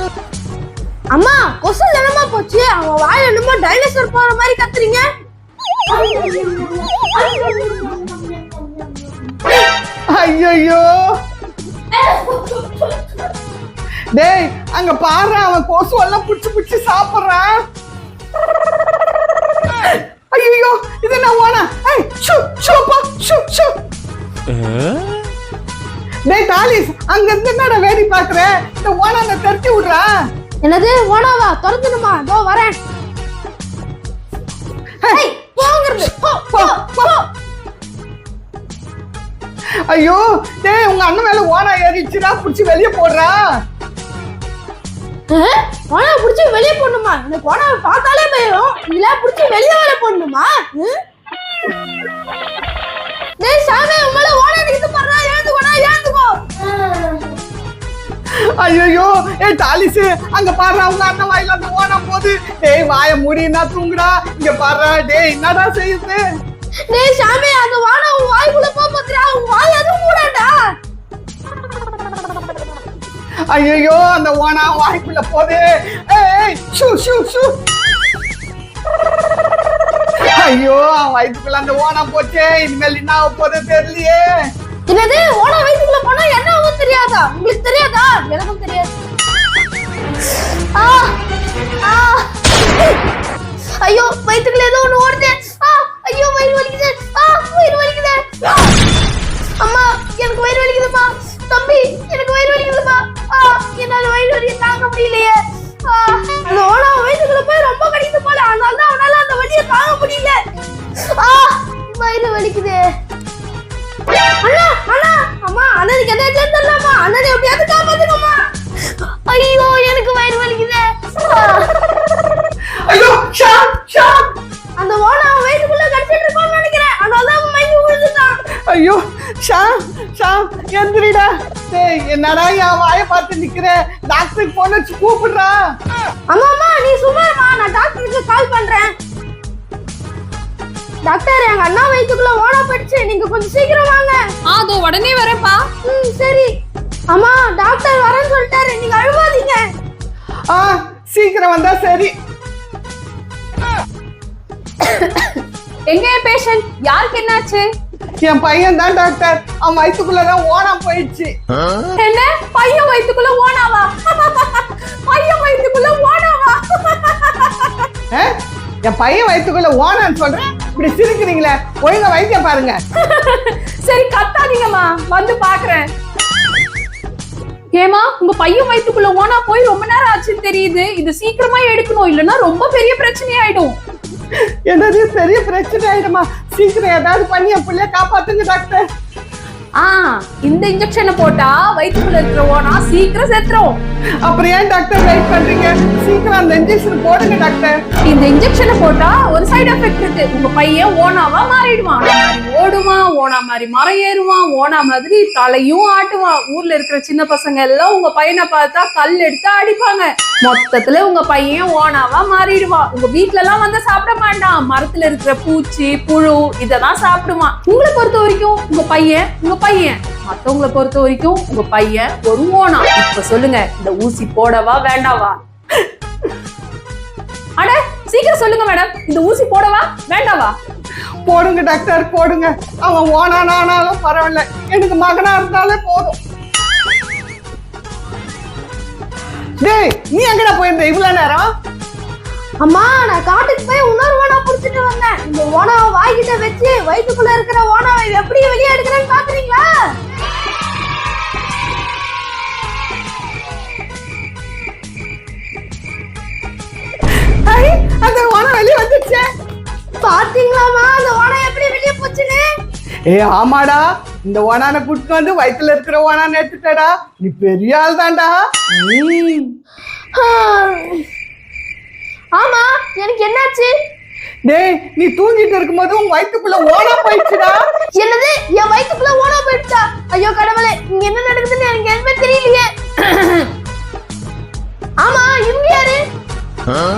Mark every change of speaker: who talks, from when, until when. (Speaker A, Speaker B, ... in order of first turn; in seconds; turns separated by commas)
Speaker A: 1.1-5.1, Speaker A: 5.9-9.0, Speaker B: 10.1-10.9, Speaker A: 12.0-12.7, Speaker B: 14.2-17.6, Speaker B: 19.9-23.7, Speaker B: 26.3-30.1, Speaker A: 30.6-32.8, Speaker A: 35.1-37.2, Speaker B: 36.5-37.1, Speaker B: 39.9-43.4, Speaker A: 45.3-51.0, Speaker A: 53.4-56.4, Speaker A: 56.9-57.1, Speaker B: 58.4-66.2, Speaker A: 66.9-70.7, Speaker B: 73.5-77.5, Speaker B: 80.3-84.3, Speaker A: 84.9-88.9, Speaker A: 90.8-91.2, Speaker A: 91.8-92.3, Speaker A: 93.8-98.7, Speaker A: 99.6-110.4, Speaker A: 111.1-112.8, Speaker A: 114.4-118.4, Speaker A: 119.3-121.7, Speaker B: 122.9-124.2, Speaker A: 124.8-128.4, Speaker B: 128.7-135.5, Speaker A: 136.3-138.9, Speaker A: 141.1-144.3, Speaker C: 144.5-145.7, Speaker A: 145.8-146.5, Speaker A: 147.1-149.7, Speaker B: 150.5-152.1, Speaker C: 154.8-157.7, Speaker B: 158.2-161.3, Speaker C: 162.0-167.8, Speaker B: 168.9-172.8, Speaker C: 173.0-175.9, Speaker C: 177.7-183.8, Speaker B: 184.7-188.8, Speaker C: 189.8-193.8, Speaker B: 194.2-197.8, Speaker C: 198.1-225.4, Speaker C: 227.6-230.6, Speaker B: 231.2-236.2, Speaker B: 239.6-241.5, Speaker A: 242.6-249.7, Speaker B: 257.5-259.3, Speaker A: 260.0-262.5, Speaker B: 263.1-268.4, Speaker A: 270.1-271.0, Speaker A: 272.4-273.7, Speaker B: 274.5-277.6, Speaker A: 278.0-282.7, Speaker A: 285.0-286.0